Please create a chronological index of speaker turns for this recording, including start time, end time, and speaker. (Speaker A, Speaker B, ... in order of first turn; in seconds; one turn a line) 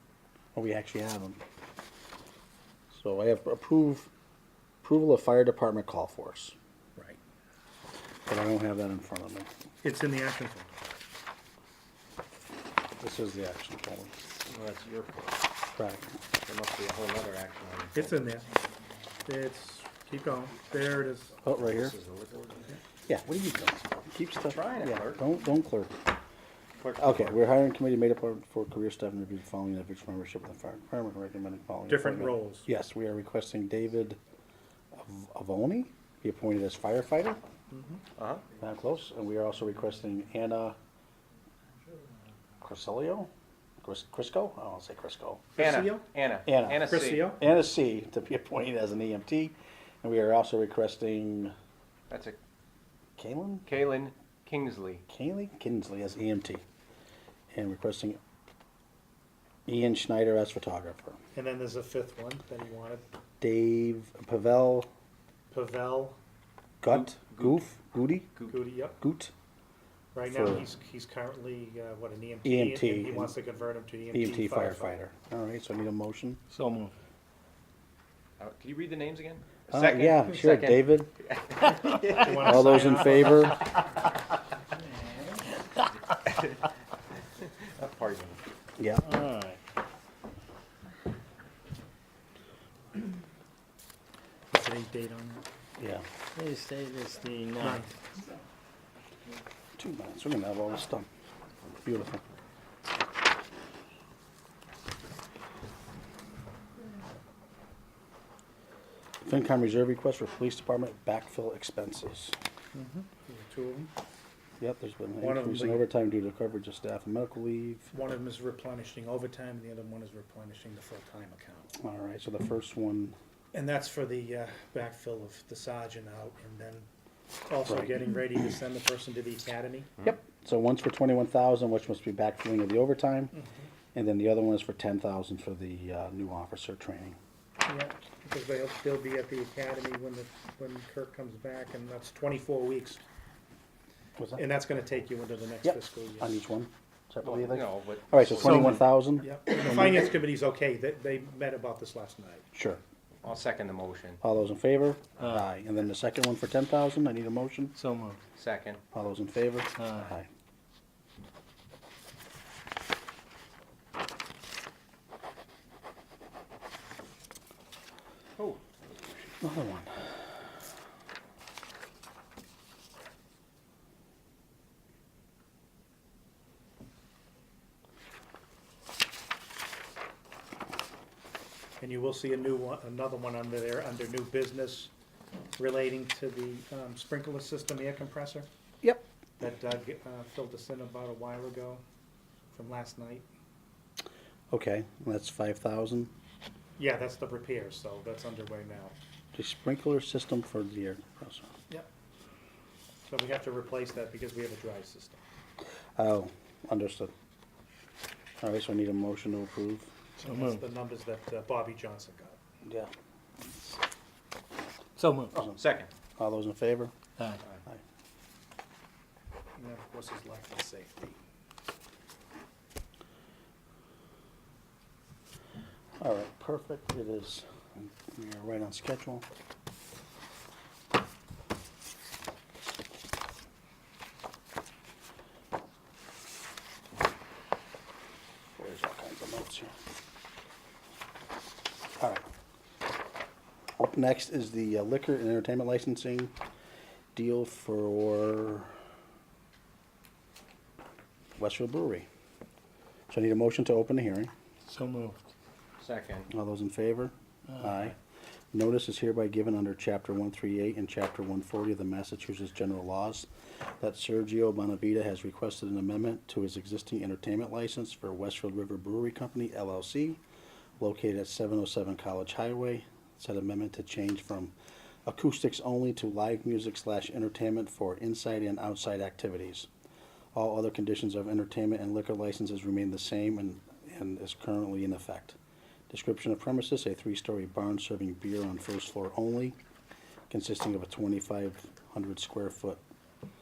Speaker A: 0.5-1.4
Speaker A: 2.9-4.1
Speaker A: 4.8-6.5
Speaker A: 8.3-9.5
Speaker B: 9.8-10.8
Speaker A: 13.0-14.2
Speaker C: 14.5-15.3
Speaker A: 15.7-16.1
Speaker C: 16.4-18.1
Speaker B: 17.9-18.5
Speaker B: 19.2-21.4
Speaker A: 21.4-21.9
Speaker C: 21.5-22.8
Speaker A: 23.1-26.0
Speaker C: 24.5-25.2
Speaker C: 26.8-27.4
Speaker A: 27.0-34.2
Speaker B: 31.9-32.7
Speaker A: 34.9-37.4
Speaker B: 37.7-38.0
Speaker C: 38.2-38.4
Speaker A: 38.6-40.8
Speaker A: 42.6-43.3
Speaker A: 43.8-45.5
Speaker B: 45.5-46.0
Speaker C: 45.6-47.3
Speaker A: 46.5-51.5
Speaker B: 46.8-47.4
Speaker C: 52.1-52.4
Speaker A: 53.2-53.7
Speaker C: 53.6-55.0
Speaker A: 55.1-56.6
Speaker A: 57.5-58.2
Speaker A: 59.7-61.2
Speaker B: 61.3-63.0
Speaker A: 63.4-64.9
Speaker B: 65.5-66.2
Speaker A: 66.8-68.4
Speaker C: 66.8-67.7
Speaker B: 68.5-69.0
Speaker A: 69.0-69.3
Speaker B: 70.1-75.0
Speaker A: 70.3-70.6
Speaker A: 72.4-73.3
Speaker A: 74.1-76.4
Speaker D: 76.5-76.9
Speaker C: 78.4-82.5
Speaker A: 79.7-81.1
Speaker B: 82.1-83.5
Speaker A: 82.3-83.6
Speaker C: 86.1-86.5
Speaker C: 87.4-88.4
Speaker A: 88.8-89.1
Speaker D: 89.0-89.6
Speaker B: 94.5-95.4
Speaker A: 95.8-96.0
Speaker D: 96.3-97.9
Speaker B: 97.6-97.9
Speaker A: 99.8-101.1
Speaker A: 101.8-102.2
Speaker A: 109.2-112.3
Speaker B: 112.7-113.9
Speaker A: 114.6-117.9
Speaker B: 115.2-115.8
Speaker B: 117.9-121.7
Speaker A: 121.8-123.1
Speaker B: 123.5-126.9
Speaker B: 127.5-129.9
Speaker A: 127.7-127.9
Speaker A: 130.0-133.3
Speaker B: 133.3-133.6
Speaker A: 133.9-137.2
Speaker B: 137.6-143.0
Speaker B: 144.3-146.3
Speaker A: 145.6-150.0
Speaker C: 147.2-148.8
Speaker D: 148.5-148.8
Speaker B: 149.2-152.5
Speaker A: 152.5-152.8
Speaker C: 153.2-154.2
Speaker A: 154.2-157.7
Speaker D: 157.8-158.2
Speaker C: 158.3-158.8
Speaker A: 158.9-160.3
Speaker D: 159.8-160.1
Speaker A: 169.4-169.9
Speaker B: 181.8-184.9
Speaker B: 185.6-188.5
Speaker B: 189.4-191.8
Speaker B: 192.5-193.3
Speaker A: 194.5-196.1
Speaker B: 196.8-198.9
Speaker A: 199.3-201.5
Speaker B: 203.0-205.2
Speaker A: 205.9-207.1
Speaker A: 208.4-209.9
Speaker D: 210.2-210.6
Speaker B: 210.2-212.4
Speaker A: 212.6-212.9
Speaker D: 215.0-215.4
Speaker A: 215.3-215.6
Speaker C: 215.6-215.9
Speaker A: 216.2-216.9
Speaker B: 219.6-221.2
Speaker A: 226.0-229.2
Speaker A: 238.6-239.7
Speaker A: 242.0-242.2
Speaker A: 243.8-246.3
Speaker A: 247.1-248.7
Speaker A: 251.4-252.1
Speaker A: 253.1-254.3
Speaker D: 254.7-255.2
Speaker C: 255.8-256.3
Speaker A: 256.3-257.9
Speaker A: 258.5-263.3
Speaker A: 263.8-270.2
Speaker A: 270.8-274.5
Speaker A: 275.1-279.7
Speaker A: 280.3-285.4
Speaker A: 285.9-289.6
Speaker A: 290.3-292.8